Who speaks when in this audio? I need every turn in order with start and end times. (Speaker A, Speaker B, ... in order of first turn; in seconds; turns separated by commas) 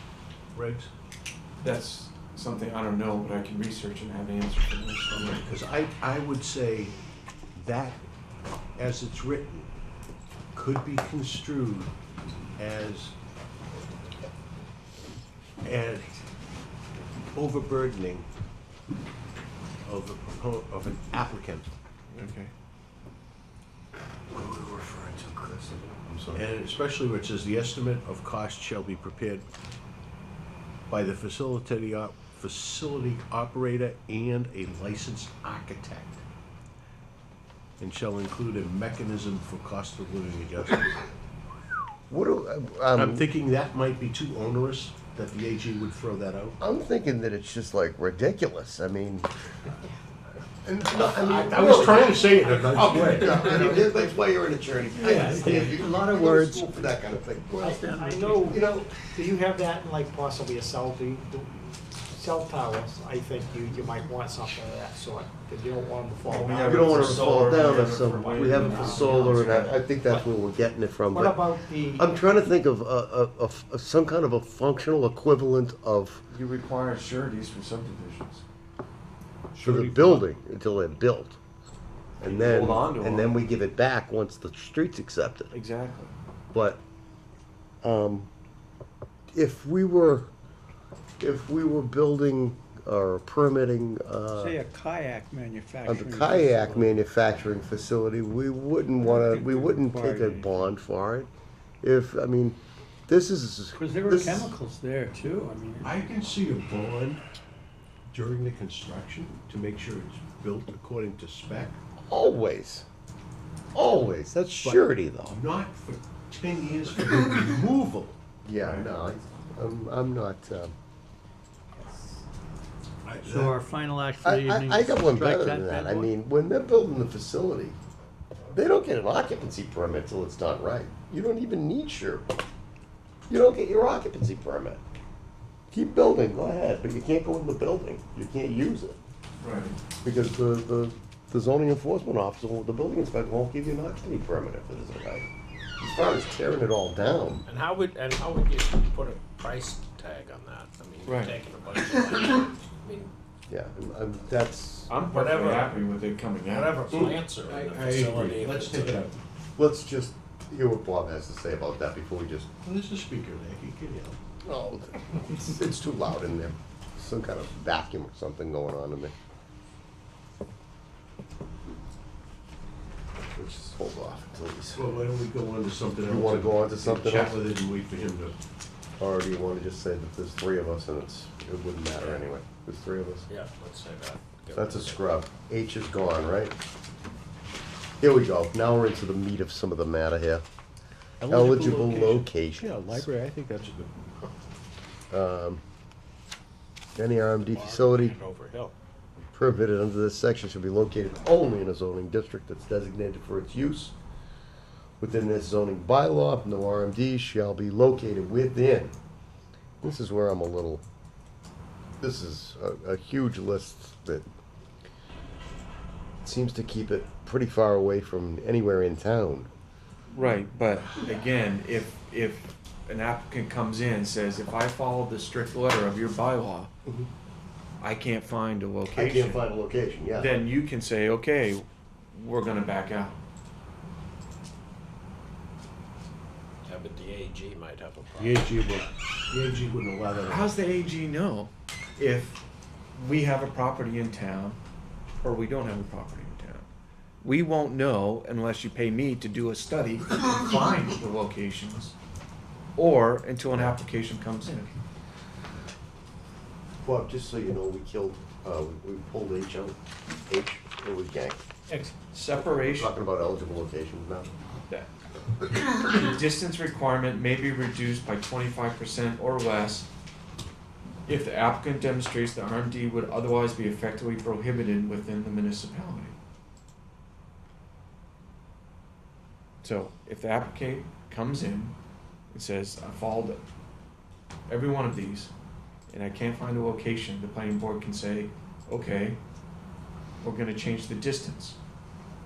Speaker A: 0.5-0.9, Speaker B: 1.6-5.4, Speaker A: 5.1-6.9, Speaker A: 7.5-8.0, Speaker A: 8.8-9.7, Speaker A: 10.5-11.9, Speaker A: 12.6-13.2, Speaker A: 15.6-16.1, Speaker A: 17.3-18.3, Speaker A: 19.8-21.7, Speaker B: 22.1-22.5, Speaker C: 24.3-26.5, Speaker A: 26.3-29.5, Speaker A: 30.9-36.2, Speaker A: 37.8-40.9, Speaker C: 42.1-43.3, Speaker A: 43.0-46.6, Speaker C: 46.6-49.3, Speaker C: 50.6-58.9, Speaker A: 50.9-53.8, Speaker D: 55.0-56.8, Speaker D: 57.6-58.5, Speaker E: 57.6-67.3, Speaker B: 66.2-69.8, Speaker C: 66.6-71.4, Speaker E: 68.3-69.4, Speaker E: 71.1-72.1, Speaker C: 72.0-76.2, Speaker B: 76.3-78.4, Speaker C: 79.6-81.4, Speaker C: 82.2-85.5, Speaker B: 82.2-83.3, Speaker B: 85.5-86.1, Speaker C: 86.5-86.8, Speaker C: 87.8-88.3, Speaker C: 89.3-90.3, Speaker C: 91.2-94.6, Speaker D: 94.3-97.0, Speaker C: 95.8-101.3, Speaker D: 99.0-100.7, Speaker C: 101.8-104.5, Speaker D: 103.8-105.9, Speaker A: 105.8-107.2, Speaker A: 108.1-111.8, Speaker C: 112.1-112.8, Speaker C: 113.7-115.4, Speaker A: 114.6-118.9, Speaker C: 118.4-120.7, Speaker C: 121.8-122.2, Speaker A: 123.0-123.6, Speaker D: 123.2-126.1, Speaker C: 124.2-127.8, Speaker C: 128.5-132.2, Speaker C: 133.3-134.8, Speaker C: 135.7-139.0, Speaker B: 139.4-139.8, Speaker C: 140.0-147.4, Speaker F: 147.4-153.1, Speaker B: 151.0-151.4, Speaker C: 153.5-154.9, Speaker B: 154.9-156.8, Speaker F: 155.0-159.1, Speaker A: 156.9-159.2, Speaker C: 159.6-162.5, Speaker A: 162.6-164.2, Speaker C: 164.4-169.1, Speaker C: 173.3-174.8, Speaker A: 174.7-178.4, Speaker C: 176.0-177.4, Speaker C: 179.0-183.3, Speaker F: 181.9-182.3, Speaker F: 183.3-185.1, Speaker C: 184.5-186.5, Speaker C: 188.0-190.4, Speaker A: 191.2-194.0, Speaker C: 191.3-193.1, Speaker C: 195.1-195.6, Speaker C: 196.9-198.2, Speaker F: 197.4-198.7, Speaker C: 199.3-203.9, Speaker C: 205.0-208.9, Speaker C: 209.8-210.8, Speaker C: 212.0-214.3, Speaker C: 216.2-219.5, Speaker B: 220.1-226.7, Speaker B: 227.8-229.4, Speaker C: 228.9-230.4, Speaker B: 230.1-233.2, Speaker F: 236.7-238.9, Speaker A: 238.2-240.6, Speaker B: 240.2-242.4, Speaker B: 242.9-244.6, Speaker B: 245.2-246.7, Speaker B: 247.2-251.9, Speaker B: 252.8-254.7, Speaker C: 256.8-259.8, Speaker C: 260.3-261.4, Speaker D: 261.7-261.9, Speaker B: 262.1-262.9, Speaker C: 262.3-264.3, Speaker B: 265.6-269.9, Speaker B: 271.1-276.1, Speaker B: 279.6-281.7, Speaker B: 282.3-283.4, Speaker B: 284.5-285.3, Speaker B: 285.9-289.2, Speaker B: 290.2-291.6